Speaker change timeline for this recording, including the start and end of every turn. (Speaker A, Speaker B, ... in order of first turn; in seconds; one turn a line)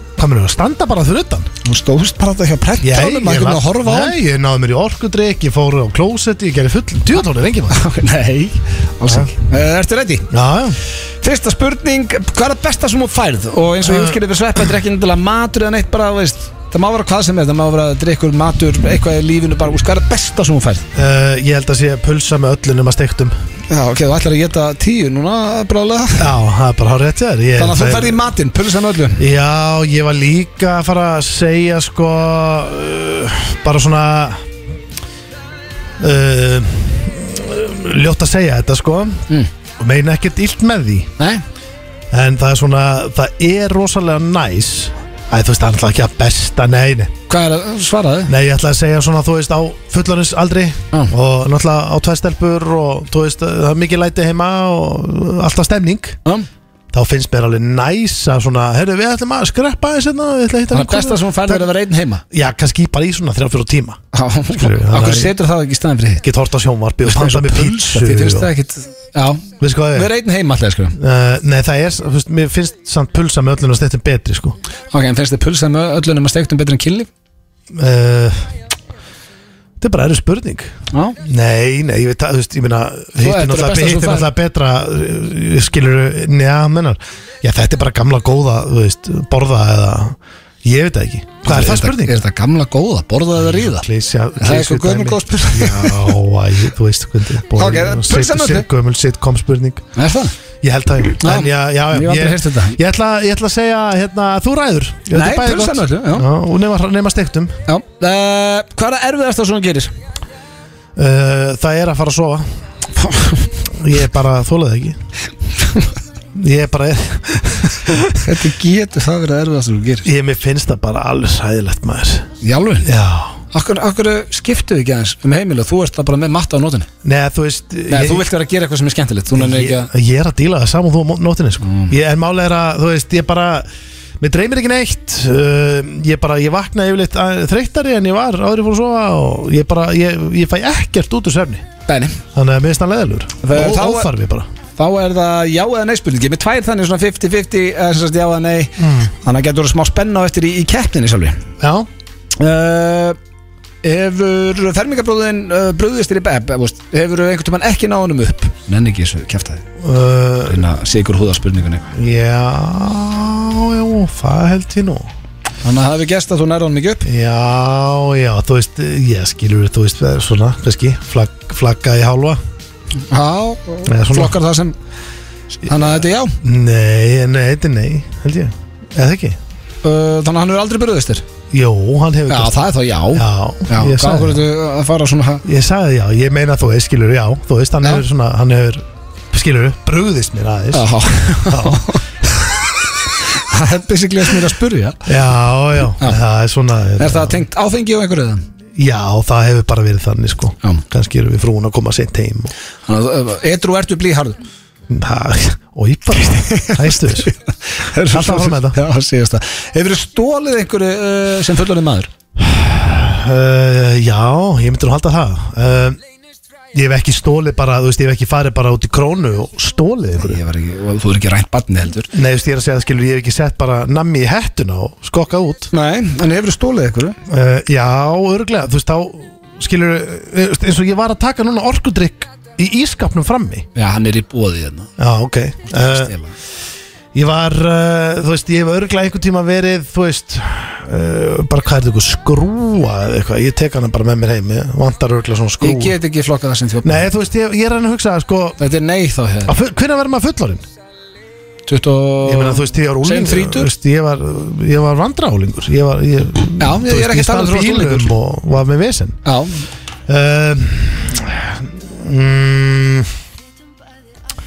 Speaker A: 0.2-1.5
Speaker B: 1.6-4.2
Speaker A: 2.8-7.8
Speaker B: 7.7-10.3
Speaker A: 10.3-10.8
Speaker B: 11.2-20.9
Speaker A: 13.8-14.2
Speaker A: 20.9-23.3
Speaker B: 23.7-26.3
Speaker A: 26.2-28.2
Speaker B: 27.6-29.2
Speaker A: 29.2-34.4
Speaker A: 36.0-39.2
Speaker A: 39.8-41.1
Speaker A: 42.1-47.1
Speaker B: 47.3-48.3
Speaker A: 48.3-56.2
Speaker A: 56.9-61.7
Speaker B: 60.7-62.2
Speaker A: 62.3-64.0
Speaker B: 64.1-66.2
Speaker A: 64.5-65.3
Speaker A: 66.2-68.5
Speaker B: 67.0-71.0
Speaker A: 69.6-70.1
Speaker A: 71.0-74.6
Speaker B: 74.9-77.1
Speaker A: 77.7-78.5
Speaker A: 79.8-80.7
Speaker A: 81.2-92.2
Speaker B: 83.2-84.3
Speaker B: 91.4-93.8
Speaker A: 93.3-99.8
Speaker B: 94.4-96.1
Speaker B: 97.5-98.7
Speaker B: 100.0-100.3
Speaker A: 100.6-107.6
Speaker B: 101.2-102.8
Speaker B: 105.1-106.3
Speaker B: 107.7-109.9
Speaker A: 111.0-112.5
Speaker A: 113.7-115.0
Speaker A: 116.3-118.2
Speaker B: 118.1-120.1
Speaker A: 120.0-122.3
Speaker B: 122.4-122.9
Speaker A: 122.8-123.4
Speaker B: 123.5-126.9
Speaker A: 127.0-128.2
Speaker B: 127.9-129.9
Speaker A: 129.3-133.7
Speaker B: 131.6-131.9
Speaker A: 134.2-141.7
Speaker B: 141.9-142.2
Speaker A: 142.3-144.5
Speaker B: 143.4-144.1
Speaker B: 144.8-151.4
Speaker A: 148.8-149.1
Speaker A: 151.6-151.9
Speaker B: 152.4-153.2
Speaker B: 153.8-159.6
Speaker A: 159.8-160.6
Speaker B: 160.5-161.9
Speaker A: 161.9-165.1
Speaker B: 165.6-167.1
Speaker A: 167.0-172.4
Speaker B: 173.1-174.8
Speaker A: 173.8-174.4
Speaker B: 175.6-176.3
Speaker A: 175.7-179.4
Speaker B: 179.8-181.2
Speaker A: 181.5-182.6
Speaker B: 182.3-185.4
Speaker A: 183.1-184.4
Speaker A: 185.4-192.0
Speaker B: 190.7-195.0
Speaker A: 195.1-197.4
Speaker B: 197.0-198.4
Speaker A: 198.8-202.5
Speaker B: 202.9-204.4
Speaker A: 204.9-207.3
Speaker B: 206.2-212.1
Speaker A: 208.1-208.8
Speaker A: 212.4-216.0
Speaker A: 216.7-220.4
Speaker B: 220.2-222.1
Speaker A: 222.1-225.7
Speaker B: 225.7-227.2
Speaker A: 227.3-233.7
Speaker B: 233.8-234.9
Speaker A: 235.0-236.1
Speaker B: 235.7-236.3
Speaker A: 237.1-245.9
Speaker B: 245.6-247.1
Speaker A: 246.8-248.6
Speaker B: 248.6-249.5
Speaker A: 249.4-250.6
Speaker B: 251.7-253.7
Speaker A: 252.2-259.2
Speaker B: 256.6-258.1
Speaker B: 259.2-259.6
Speaker A: 260.1-263.1